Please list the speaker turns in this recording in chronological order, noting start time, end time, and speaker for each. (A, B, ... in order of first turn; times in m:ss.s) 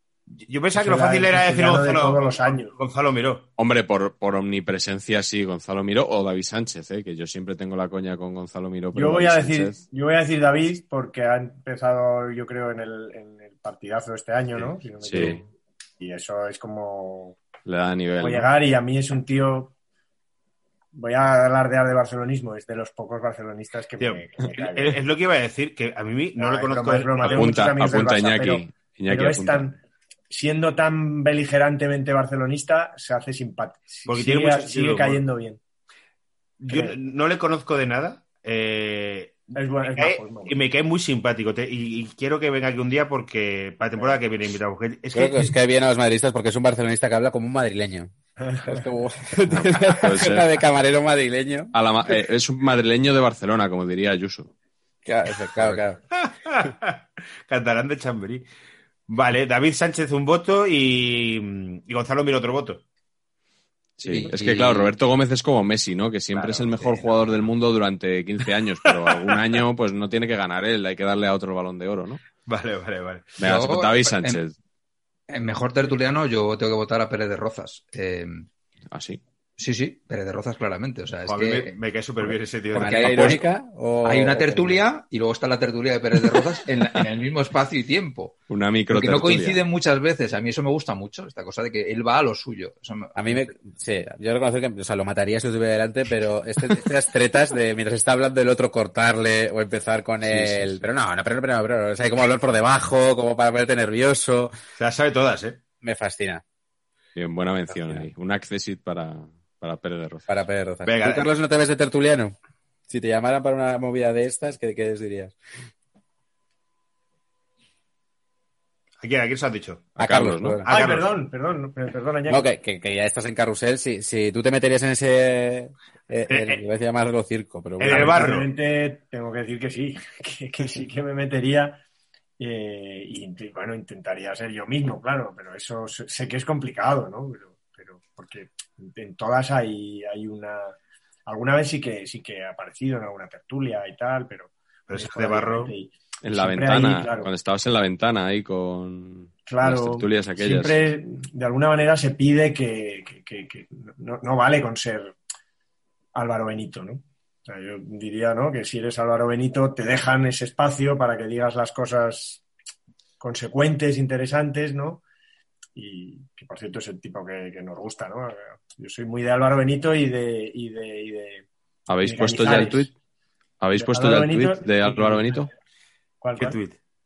0:00.4-0:03.4 A
0:00.7-0:02.7 B
0:03.6-0:09.8 C
0:08.9-0:17.4 B
0:15.0-0:15.4 C
0:17.6-0:18.5 C
0:18.2-0:19.7 B
0:20.9-0:25.0 B
0:24.0-0:27.5 A
0:26.4-0:29.8 B
0:27.2-0:29.7 C
0:30.3-0:35.6 B
0:34.1-0:35.2 A
0:36.6-0:45.5 A
0:36.7-0:37.0 B
0:39.5-0:40.6 B
0:45.1-0:48.1 D
0:48.4-0:48.8 B
0:48.6-0:51.7 D
0:49.4-0:50.6 C
0:51.7-0:54.5 C
0:55.0-0:56.0 D
0:56.2-0:58.4 A
0:59.1-1:02.8 A
1:04.0-1:12.2 C
1:04.1-1:04.9 E
1:06.3-1:06.7 A
1:06.8-1:07.4 E
1:08.8-1:09.4 A
1:12.4-1:13.4 A
1:13.4-1:14.4 E
1:13.4-1:14.5 C
1:15.3-1:18.4 E
1:18.9-1:19.2 C
1:19.6-1:21.7 E
1:21.3-1:23.4 A
1:22.7-1:24.8 D
1:22.8-1:23.4 E
1:24.0-1:28.4 E
1:28.5-1:29.6 C
1:28.9-1:33.5 E
1:33.1-1:44.5 D
1:40.2-1:40.8 C
1:44.8-1:45.6 A
1:45.8-1:46.4 D
1:47.1-1:50.3 C
1:47.7-1:48.1 D
1:50.3-1:52.3 D
1:50.8-1:51.3 A
1:52.9-1:55.4 D
1:59.0-2:00.0 A
2:00.0-2:00.7 D
2:00.0-2:00.6 C
2:00.6-2:01.1 A
2:00.7-2:02.4 B
2:02.3-2:08.2 D
2:06.3-2:06.6 A
2:07.8-2:11.8 B
2:07.8-2:08.5 A
2:12.4-2:20.8 B
2:21.3-2:27.3 B
2:24.9-2:25.7 A
2:26.2-2:30.9 C
2:29.5-2:35.1 B
2:36.1-2:42.4 B
2:43.2-2:45.0 B
2:45.7-2:51.4 B
2:51.9-2:52.9 C
2:52.0-2:52.9 B
2:53.6-2:55.5 C
2:53.7-2:55.5 B
2:56.2-2:56.6 B
2:56.4-2:56.8 A